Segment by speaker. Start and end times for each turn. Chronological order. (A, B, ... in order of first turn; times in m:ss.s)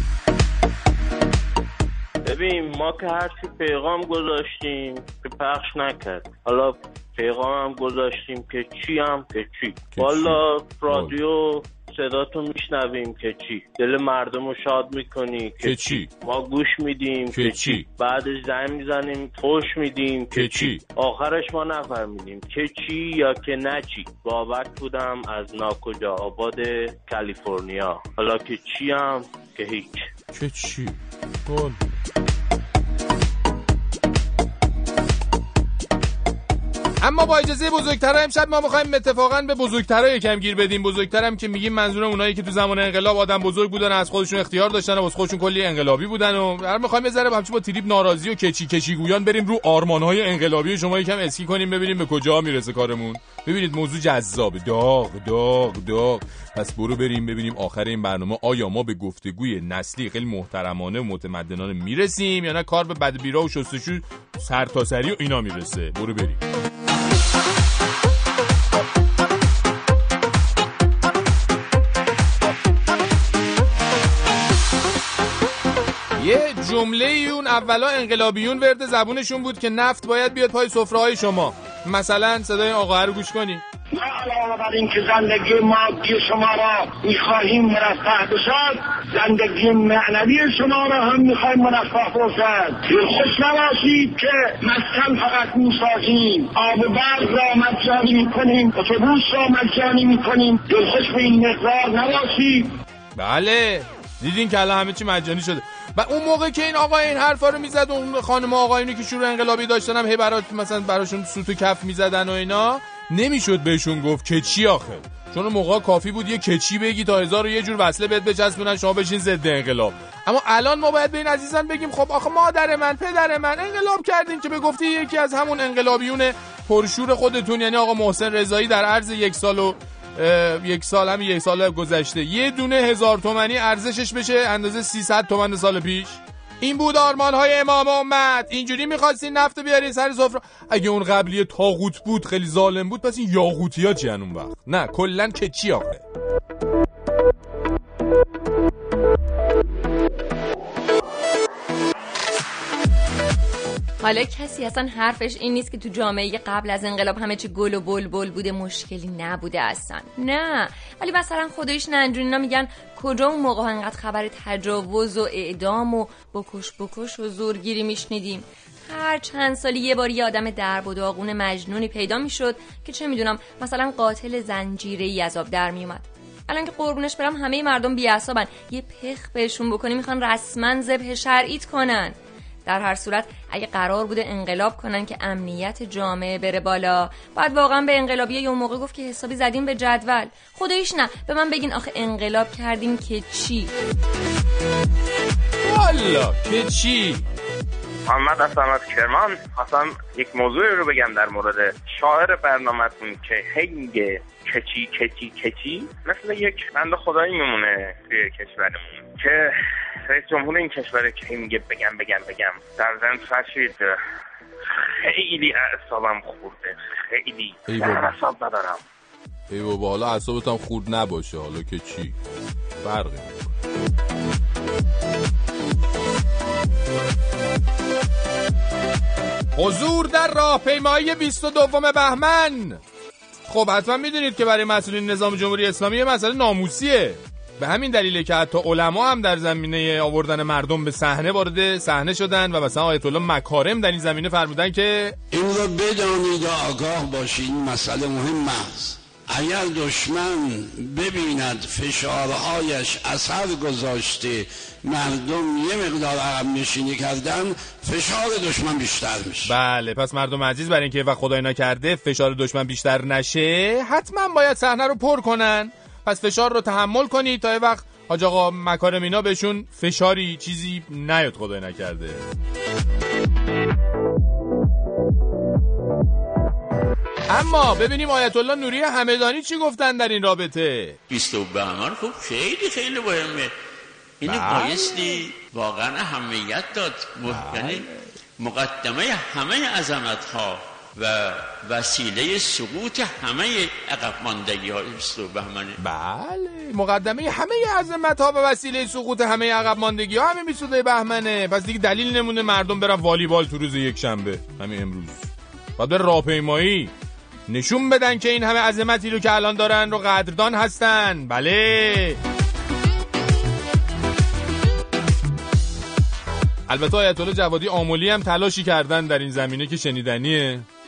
0:02.2-0:30.1 A
0:09.9-0:10.4 B
0:10.9-0:11.2 B
0:15.6-0:16.1 B
0:17.3-0:17.9 B
0:20.3-0:20.8 B
0:30.3-0:31.8 B
0:37.0-1:06.4 B
1:16.2-1:23.6 B
1:24.0-1:42.7 C
1:43.2-2:26.0 B
2:34.0-3:13.7 D
3:15.6-3:17.2 B
3:18.1-3:27.2 A
3:28.1-3:29.3 A
3:30.1-3:33.7 A
3:35.1-3:38.0 A
3:37.7-3:38.1 B
3:39.5-3:42.2 B
3:42.8-3:43.5 B
3:49.6-3:52.8 B
3:53.5-4:05.2 B
4:05.3-4:19.5 E
4:19.4-4:32.2 B
4:37.3-4:41.0 B
4:41.1-4:43.5 F
4:44.2-4:47.9 F
4:44.2-4:45.2 B
4:47.3-4:47.9 B
4:48.4-4:55.8 F
4:55.8-5:06.9 B
5:07.5-5:12.2 B
5:16.7-5:20.7 B